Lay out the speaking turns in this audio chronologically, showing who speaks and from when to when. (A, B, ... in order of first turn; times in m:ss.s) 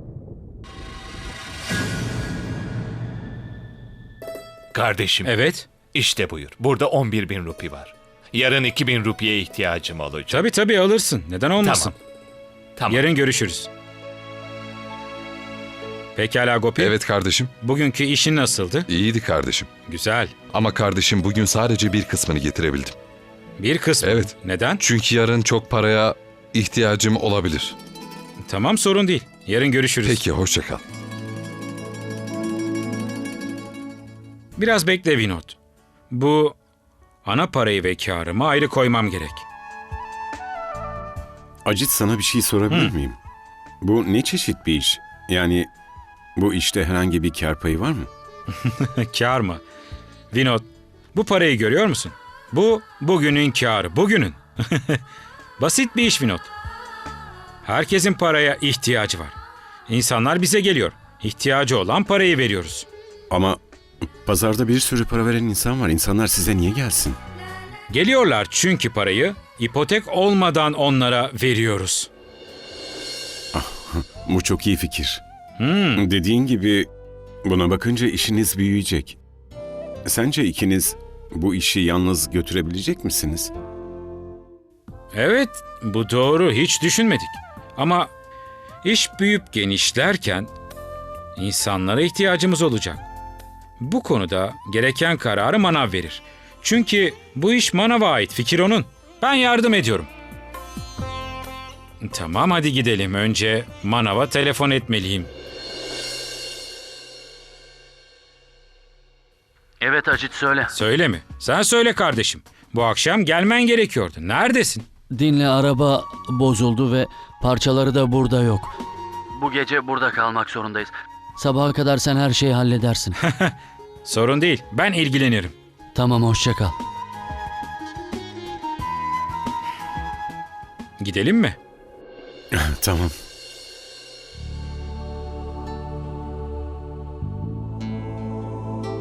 0:04.7-0:05.3 A
0:05.2-0:05.7 B
0:05.8-0:10.5 A
0:10.3-0:11.9 B
0:11.6-0:11.9 A
0:12.8-0:13.1 A
0:12.9-0:13.7 B
0:16.2-0:16.9 B
0:16.8-0:17.5 C
0:17.6-0:18.8 B
0:18.9-0:19.7 C
0:19.9-0:20.3 B
0:20.5-0:22.9 C
0:23.6-0:24.8 B
0:24.0-0:27.8 C
0:28.4-0:30.2 B
0:30.0-0:30.8 C
0:34.6-0:35.6 B
0:36.1-0:36.5 B
0:37.2-0:39.4 B
0:41.6-0:43.2 D
0:43.8-0:45.7 D
0:46.4-0:48.1 D
0:48.5-0:49.6 B
0:50.3-0:55.0 B
0:55.6-0:56.5 B
0:57.6-0:59.4 B
0:59.9-1:02.9 B
1:03.3-1:07.2 D
1:07.9-1:12.1 B
1:13.5-1:15.2 D
1:15.6-1:16.0 B
1:16.0-1:16.9 D
1:17.4-1:19.2 D
1:20.0-1:23.5 D
1:25.1-1:28.1 B
1:28.8-1:30.5 B
1:31.4-1:33.0 B
1:33.8-1:40.1 B
1:42.0-1:45.3 B
1:49.8-1:50.7 E
1:50.7-1:54.8 B
1:55.1-1:58.8 E
1:59.3-2:03.2 E
2:03.2-2:03.5 B
2:04.0-2:05.5 B
2:05.9-2:06.8 E
2:11.0-2:11.6 B
2:12.5-2:13.1 D